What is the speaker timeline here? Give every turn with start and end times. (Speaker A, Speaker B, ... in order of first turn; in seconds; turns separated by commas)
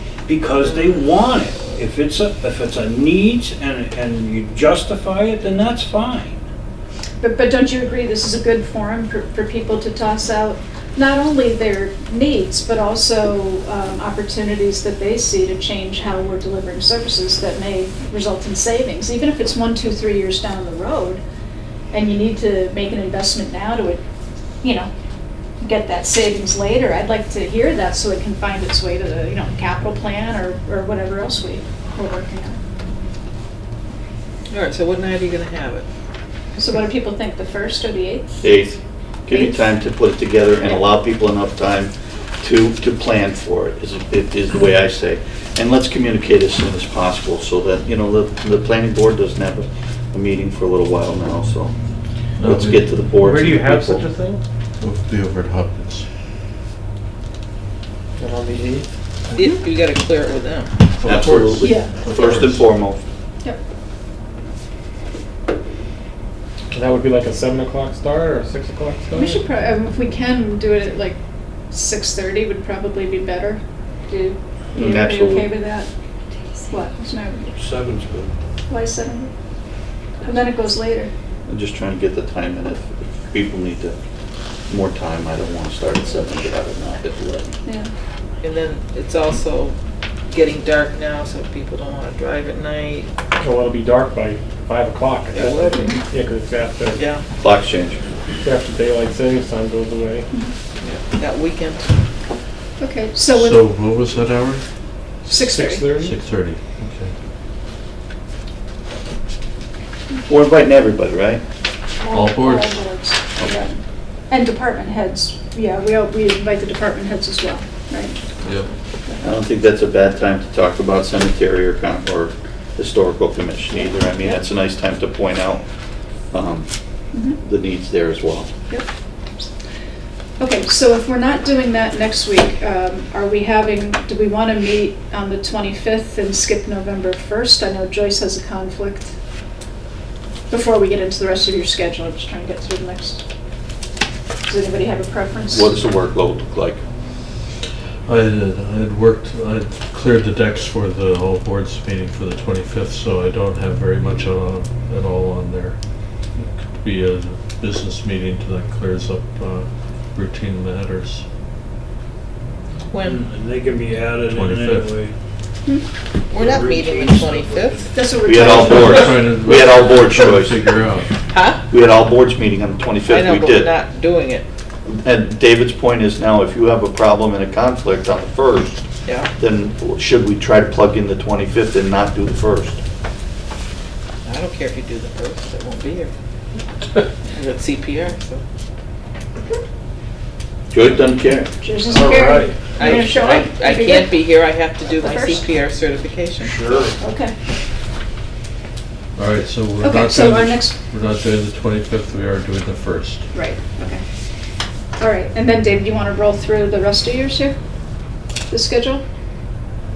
Speaker A: 0.3-6.4, Speaker B: 7.2-21.2, Speaker B: 21.9-24.0, Speaker B: 24.6-24.9, Speaker B: 25.6-32.6, Speaker C: 34.5-35.9, Speaker B: 36.6-38.5, Speaker D: 38.4-41.9, Speaker B: 39.3-39.7, Speaker D: 42.4-51.7, Speaker E: 52.4-53.0, Speaker D: 52.4-54.1, Speaker F: 53.2-54.4, Speaker E: 54.8-56.1, Speaker F: 58.2-58.9, Speaker C: 59.4-60.7, Speaker E: 61.0-62.7, Speaker D: 61.0-63.0, Speaker B: 61.6-62.0, Speaker F: 66.7-69.4, Speaker B: 69.2-71.2, Speaker B: 71.7-75.9, Speaker D: 74.7-75.5, Speaker B: 76.7-77.6, Speaker A: 77.6-78.3, Speaker B: 78.7-79.3, Speaker B: 80.2-81.1, Speaker D: 81.5-84.0, Speaker D: 84.7-87.6, Speaker B: 87.7-87.9, Speaker C: 88.4-89.8, Speaker C: 90.3-93.1, Speaker F: 93.4-97.0, Speaker C: 95.3-96.0, Speaker C: 97.0-97.2, Speaker D: 97.4-98.0, Speaker F: 98.4-100.3, Speaker C: 100.8-101.9, Speaker B: 102.8-103.6, Speaker E: 103.3-104.6, Speaker B: 105.3-106.0, Speaker F: 105.3-106.2, Speaker E: 106.0-107.1, Speaker D: 110.3-111.4, Speaker B: 112.0-118.2, Speaker E: 112.1-112.8, Speaker E: 118.4-118.7, Speaker D: 119.2-125.6, Speaker D: 126.3-126.7, Speaker B: 127.1-127.4, Speaker D: 127.3-128.5, Speaker B: 130.4-139.1, Speaker B: 140.5-143.2, Speaker B: 144.4-145.8, Speaker D: 145.5-146.8, Speaker E: 148.1-155.8, Speaker E: 156.8-161.2, Speaker C: 162.9-163.2, Speaker A: 163.0-165.2, Speaker E: 164.3-165.0, Speaker C: 166.3-168.0, Speaker A: 166.3-168.5, Speaker B: 167.9-169.3, Speaker D: 168.2-170.7, Speaker E: 168.4-171.1, Speaker C: 171.3-171.6, Speaker D: 171.7-173.7, Speaker C: 173.1-174.4, Speaker D: 174.9-178.8, Speaker D: 179.4-182.8, Speaker C: 184.2-186.1, Speaker C: 187.3-188.4, Speaker D: 190.7-191.5, Speaker B: 191.6-194.2, Speaker A: 191.9-193.0, Speaker C: 192.7-196.7, Speaker B: 195.0-195.5, Speaker A: 196.4-197.0, Speaker B: 197.0-197.3, Speaker E: 199.2-203.3, Speaker B: 199.8-200.8, Speaker B: 203.3-204.0, Speaker B: 205.0-207.6, Speaker B: 208.5-209.0